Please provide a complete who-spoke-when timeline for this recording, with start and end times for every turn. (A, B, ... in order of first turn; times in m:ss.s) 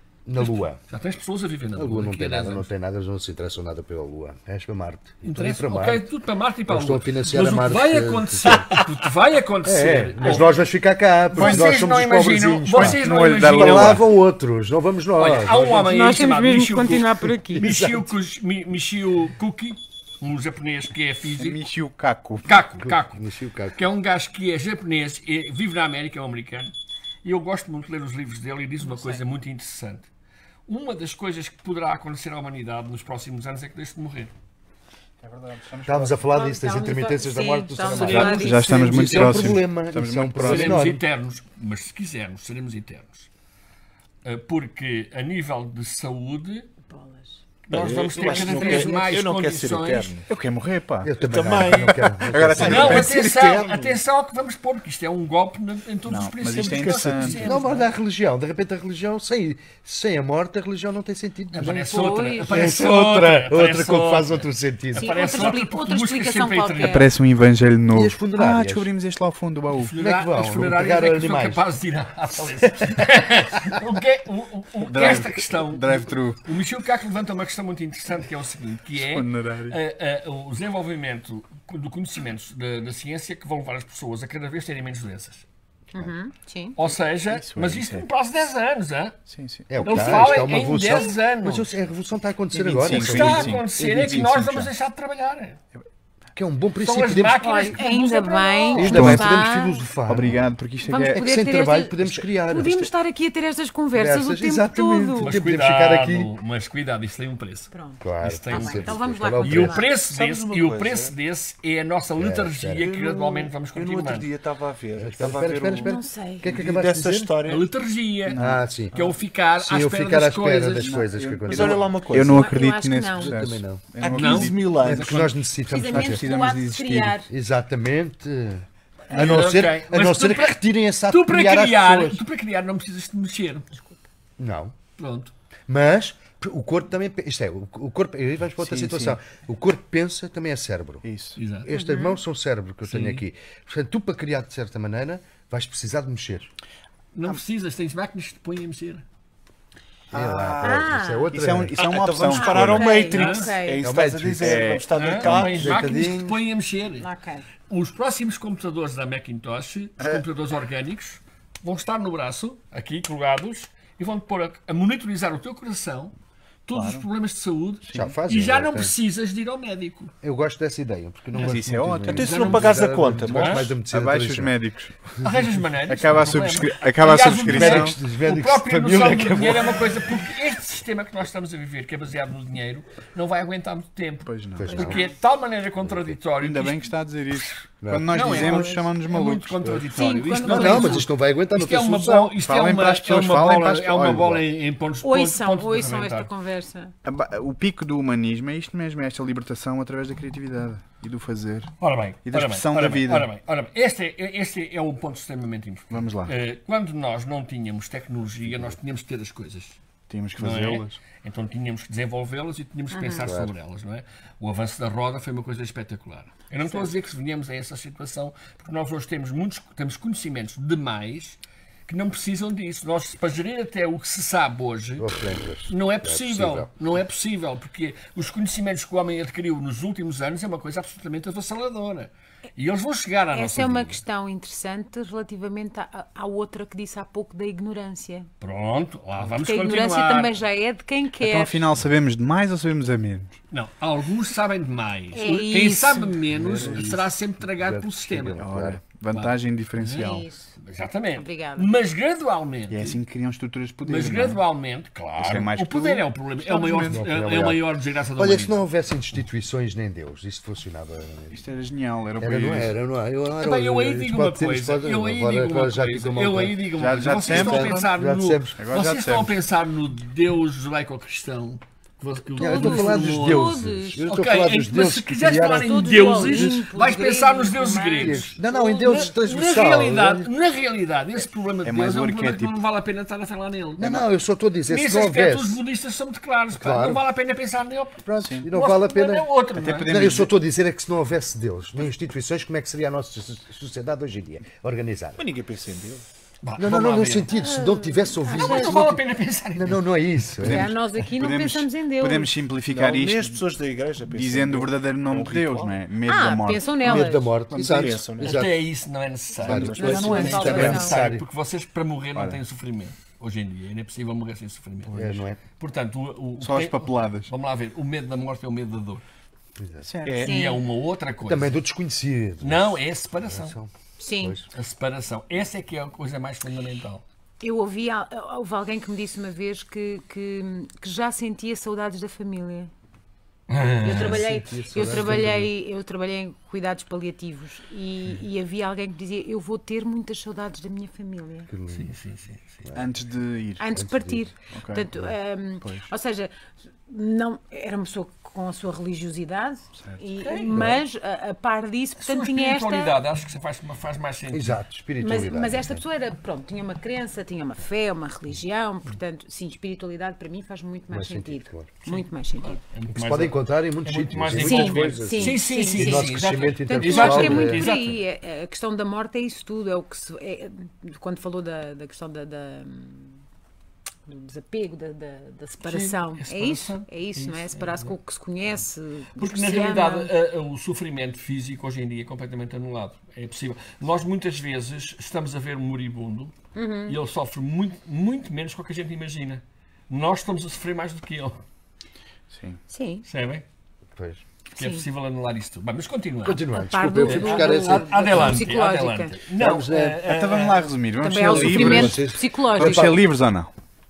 0:00.2-0:00.8 A
0:00.4-0:02.7 B
0:01.8-0:06.1 A
0:05.2-0:10.6 B
0:06.7-0:08.7 A
0:09.6-0:15.9 A
0:11.3-0:14.0 B
0:11.4-0:12.0 C
0:12.7-0:14.1 C
0:15.2-0:21.6 B
0:15.8-0:17.7 D
0:17.6-0:18.1 A
0:21.3-0:22.5 C
0:22.4-0:26.7 B
0:22.8-0:23.8 A
0:27.2-0:30.1 B
0:28.8-0:29.2 D
0:30.7-0:34.3 B
0:35.2-0:36.2 C
0:35.8-0:41.0 A
0:36.3-0:39.3 D
0:37.8-0:39.5 B
0:38.0-0:40.9 C
0:40.4-0:43.3 B
0:44.2-0:46.7 B
0:46.8-0:47.4 D
0:47.7-0:50.2 B
0:47.7-0:50.2 E
0:48.2-0:49.0 A
0:50.3-0:53.3 C
0:51.0-0:53.1 A
0:51.2-0:54.0 E
0:52.6-0:57.9 B
0:56.0-0:57.4 C
0:56.6-0:57.5 E
0:57.4-1:05.5 A
1:01.5-1:07.1 B
1:01.6-1:02.8 D
1:05.0-1:07.1 D
1:06.8-1:09.9 C
1:07.9-1:08.9 A
1:09.7-1:25.4 B
1:10.0-1:11.6 A
1:10.4-1:10.7 C
1:14.8-1:16.4 C
1:18.9-1:19.8 C
1:25.9-1:26.8 D
1:26.8-1:29.2 B
1:27.3-1:28.0 C
1:29.3-1:30.5 C
1:29.7-1:34.7 A
1:29.8-1:31.6 B
1:32.5-1:34.5 C
1:32.9-1:35.6 B
1:36.3-1:37.6 A
1:36.8-1:39.2 B
1:37.4-1:39.8 D
1:38.7-1:40.5 A
1:38.8-1:39.2 C
1:40.1-1:41.2 C
1:40.8-1:45.4 D
1:41.1-1:42.9 A
1:43.9-1:46.3 A
1:45.2-1:54.3 B
1:47.7-1:49.9 D
1:48.0-1:49.8 A
1:50.0-1:51.1 E
1:52.2-1:52.8 A
1:52.8-1:57.7 E
1:55.0-1:57.3 A
1:55.8-1:56.5 D
1:57.4-2:01.0 B
1:58.3-1:59.2 C
1:58.4-1:58.9 A
1:59.6-2:01.9 A
2:00.8-2:04.8 C
2:01.5-2:02.6 E
2:02.3-2:03.4 D
2:03.2-2:03.9 A
2:04.0-2:05.3 E
2:04.1-2:05.1 B
2:04.8-2:06.2 A
2:05.6-2:07.3 D
2:05.9-2:07.2 C
2:07.3-2:12.2 A
2:09.1-2:10.6 B
2:11.1-2:13.8 B
2:14.4-2:14.8 A
2:15.0-2:15.3 B
2:15.7-2:21.0 A
2:18.6-2:19.2 C
2:21.0-2:21.4 C
2:21.4-2:21.7 B
2:21.6-2:26.5 A
2:21.7-2:22.2 D
2:22.8-2:23.2 B
2:27.1-2:29.0 B
2:30.1-2:33.0 C
2:30.1-2:31.8 A
2:30.6-2:31.3 D
2:31.8-2:35.9 E
2:32.3-2:33.8 D
2:33.1-2:33.5 B
2:33.8-2:34.7 A
2:34.4-2:35.3 C
2:34.9-2:37.1 B
2:35.2-2:36.4 A
2:37.0-2:37.5 D
2:37.7-2:46.1 B
2:46.7-2:50.1 B
2:46.7-2:47.1 C
2:47.8-2:48.2 C
2:47.9-2:48.9 A
2:50.2-2:54.5 A
2:51.3-2:52.6 C
2:52.1-2:53.7 E
2:52.2-2:52.8 B
2:53.3-2:53.7 B
2:53.8-2:58.0 C
2:55.2-3:06.9 B
2:57.4-2:59.8 A
3:04.2-3:05.0 C
3:04.6-3:05.0 A
3:05.8-3:06.2 A
3:06.4-3:09.8 C
3:07.8-3:08.6 A
3:08.1-3:16.3 B
3:08.4-3:08.8 D
3:09.9-3:11.1 D
3:10.4-3:12.4 A
3:12.4-3:14.4 C
3:15.0-3:16.9 D
3:17.0-3:21.7 C
3:21.8-3:29.8 B
3:22.2-3:23.3 C
3:25.9-3:26.3 C
3:30.1-3:31.0 C
3:30.4-3:45.1 B
3:32.9-3:33.3 D
3:33.2-3:33.5 A
3:36.6-3:36.9 D
3:45.0-3:46.7 A
3:45.6-3:54.0 B
3:53.3-3:58.3 D
3:58.4-4:00.4 B
3:59.4-4:01.6 D
4:01.2-4:03.4 C
4:03.5-4:08.4 B
4:05.1-4:06.2 D
4:06.3-4:07.0 C
4:06.5-4:08.8 A
4:08.4-4:10.2 C
4:09.1-4:13.0 B
4:09.9-4:10.5 D
4:11.1-4:11.7 D
4:12.7-4:14.4 C
4:13.8-4:18.5 B
4:15.2-4:17.0 C
4:16.9-4:17.6 A
4:18.2-4:21.4 A
4:21.3-4:22.7 C
4:22.2-4:26.7 A
4:23.4-4:44.0 B
4:26.8-4:27.9 C
4:27.2-4:28.6 A
4:28.6-4:29.3 C
4:32.4-4:34.0 D
4:32.4-4:36.6 A
4:35.5-4:39.1 D
4:38.0-4:40.3 A
4:41.6-4:42.6 C
4:43.8-4:45.6 A
4:44.7-4:50.0 B
4:46.6-4:47.0 A
4:48.0-4:55.2 A
4:48.2-4:48.5 C
4:49.5-4:50.3 C
4:55.2-4:56.0 E
4:56.4-4:57.3 B
4:56.6-4:59.0 A
4:57.3-4:58.8 D
4:58.3-4:59.8 B
4:59.5-5:00.7 A
5:00.4-5:03.4 C
5:00.4-5:02.3 D
5:02.7-5:05.8 E
5:04.0-5:06.8 C
5:06.0-5:07.3 D
5:06.8-5:08.6 A
5:07.5-5:08.5 E
5:08.2-5:19.0 B
5:09.4-5:11.0 C
5:09.4-5:11.2 A
5:09.8-5:11.0 D
5:09.9-5:10.2 E
5:12.1-5:12.4 C
5:14.9-5:15.2 C
5:14.9-5:15.4 A
5:16.4-5:17.3 C
5:19.6-5:19.9 A
5:19.8-5:20.3 C
5:20.0-5:20.5 E
5:20.2-5:20.6 D
5:20.2-5:21.6 B
5:21.2-5:23.7 A
5:22.4-5:23.6 B
5:24.0-5:24.4 D
5:24.2-5:24.5 A
5:24.5-5:27.0 B
5:27.4-5:32.7 D
5:33.5-5:34.2 B
5:33.8-5:41.5 D
5:33.8-5:35.5 A
5:41.5-5:41.9 A
5:41.7-5:42.7 B
5:42.7-5:43.7 C
5:43.6-5:53.0 D
5:43.7-5:44.3 A
5:44.5-5:44.9 C
5:45.6-5:45.9 C
5:49.8-5:50.0 C
5:50.2-5:50.6 B
5:50.5-5:50.8 A
5:52.0-5:54.6 B
5:54.3-5:55.8 A
5:55.0-6:02.6 D
6:00.9-6:01.7 A
6:01.8-6:08.0 B
6:02.9-6:07.7 A
6:04.4-6:13.2 D
6:14.0-6:20.1 D
6:15.6-6:18.0 B
6:19.1-6:26.3 B
6:26.5-6:27.0 D
6:26.9-6:31.4 B
6:32.3-6:32.6 C
6:32.7-6:33.0 D
6:33.0-6:33.4 B
6:33.9-6:34.2 A
6:34.6-6:34.8 D
6:34.6-6:36.4 B
6:36.2-6:38.4 A
6:36.5-6:39.3 D
6:37.0-6:40.7 B
6:39.4-6:40.0 A
6:40.0-6:43.5 C
6:41.0-6:43.0 D
6:41.3-6:43.0 A